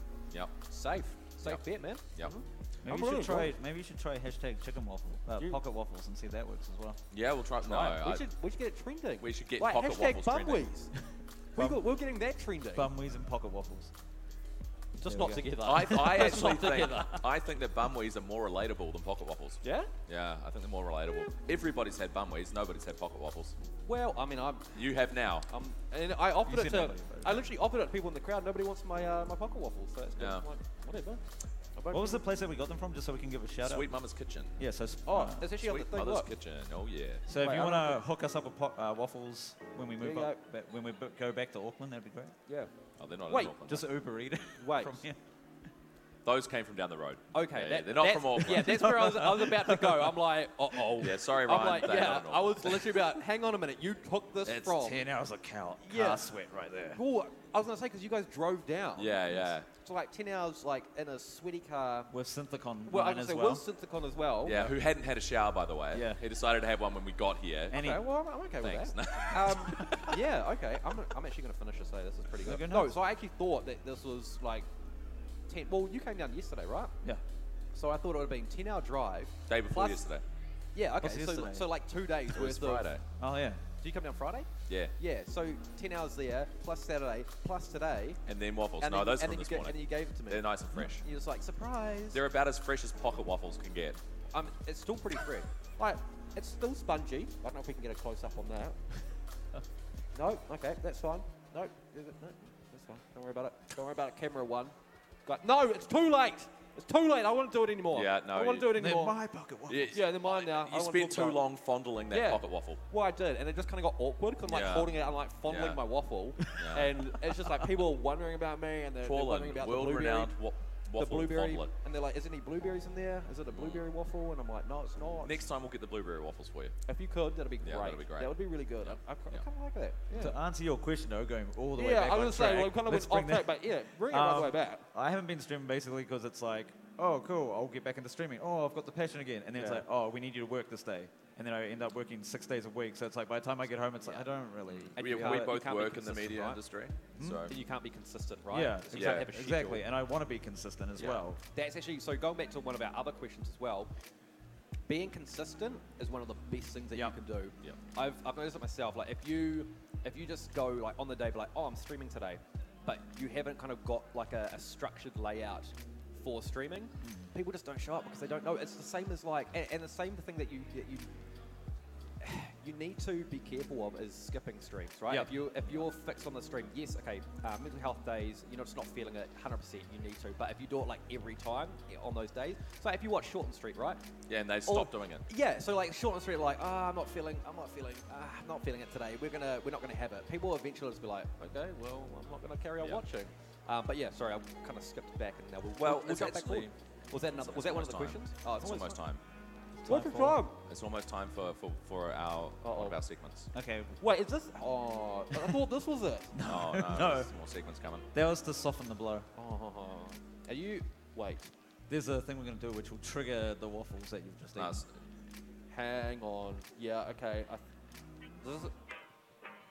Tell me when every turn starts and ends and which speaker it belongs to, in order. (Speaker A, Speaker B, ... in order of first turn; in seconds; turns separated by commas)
Speaker A: 0.3-0.6, Speaker B: 0.7-3.5, Speaker A: 1.4-2.3, Speaker C: 2.8-7.0, Speaker A: 7.1-8.3, Speaker B: 7.6-10.9, Speaker A: 9.2-10.7, Speaker B: 11.6-12.9, Speaker C: 11.6-11.8, Speaker C: 12.7-13.9, Speaker B: 15.0-17.2, Speaker C: 15.1-17.0, Speaker A: 15.6-23.6, Speaker B: 19.6-19.9, Speaker B: 23.9-24.8, Speaker A: 24.7-25.5, Speaker B: 25.5-31.2, Speaker C: 26.4-27.5, Speaker A: 30.2-30.4, Speaker B: 31.8-32.2, Speaker C: 31.9-33.9, Speaker A: 33.6-34.6, Speaker C: 34.6-35.5, Speaker B: 35.0-36.3, Speaker A: 35.5-37.2, Speaker C: 37.3-42.4, Speaker B: 37.4-38.0, Speaker B: 40.0-40.4, Speaker A: 43.0-43.9, Speaker B: 43.3-43.5, Speaker C: 43.7-45.2, Speaker B: 44.6-45.0, Speaker A: 46.2-49.0, Speaker B: 47.3-55.0, Speaker C: 48.5-50.1, Speaker A: 51.0-53.0, Speaker A: 54.5-54.7, Speaker C: 54.7-57.0, Speaker B: 55.8-56.3, Speaker B: 56.9-62.1, Speaker A: 59.0-59.7, Speaker C: 62.1-63.6, Speaker B: 62.9-64.7, Speaker A: 64.5-67.9, Speaker C: 65.9-66.2, Speaker C: 67.7-68.1, Speaker B: 67.7-74.7, Speaker A: 68.6-70.2, Speaker C: 72.4-73.0, Speaker B: 75.5-76.9, Speaker B: 77.7-80.0, Speaker A: 79.5-80.2, Speaker B: 80.7-82.9, Speaker C: 81.0-81.7, Speaker A: 82.3-83.0, Speaker C: 83.2-83.6, Speaker B: 83.8-88.2, Speaker A: 88.3-91.0, Speaker B: 88.8-92.2, Speaker A: 92.1-94.0, Speaker B: 94.3-98.8, Speaker B: 100.1-109.2, Speaker A: 107.9-108.8, Speaker C: 108.7-110.0, Speaker A: 109.7-112.8, Speaker B: 109.9-111.4, Speaker B: 112.1-120.4, Speaker A: 114.5-115.8, Speaker A: 116.5-117.0, Speaker A: 119.0-121.7, Speaker B: 121.0-125.4, Speaker A: 123.5-123.8, Speaker A: 125.2-126.8, Speaker B: 126.9-130.4, Speaker A: 127.6-129.4, Speaker C: 130.1-145.5, Speaker B: 131.8-134.9, Speaker B: 139.6-139.8, Speaker A: 144.7-147.5, Speaker B: 144.9-146.6, Speaker C: 147.2-147.5, Speaker B: 147.5-149.8, Speaker C: 148.5-151.4, Speaker A: 148.9-149.3, Speaker B: 151.0-153.9, Speaker B: 154.9-171.1, Speaker C: 167.0-167.3, Speaker B: 172.2-184.0, Speaker A: 184.3-185.2, Speaker B: 184.6-199.0, Speaker A: 195.8-196.7, Speaker A: 197.3-199.2, Speaker C: 199.8-200.4, Speaker B: 199.9-200.6, Speaker A: 200.6-203.5, Speaker B: 202.6-203.0, Speaker C: 203.5-203.9, Speaker B: 204.0-206.4, Speaker C: 206.3-207.3, Speaker A: 206.4-208.1, Speaker C: 208.1-209.3, Speaker B: 209.3-211.5, Speaker C: 211.9-214.8, Speaker A: 214.6-214.9, Speaker B: 215.7-217.6, Speaker B: 218.4-218.7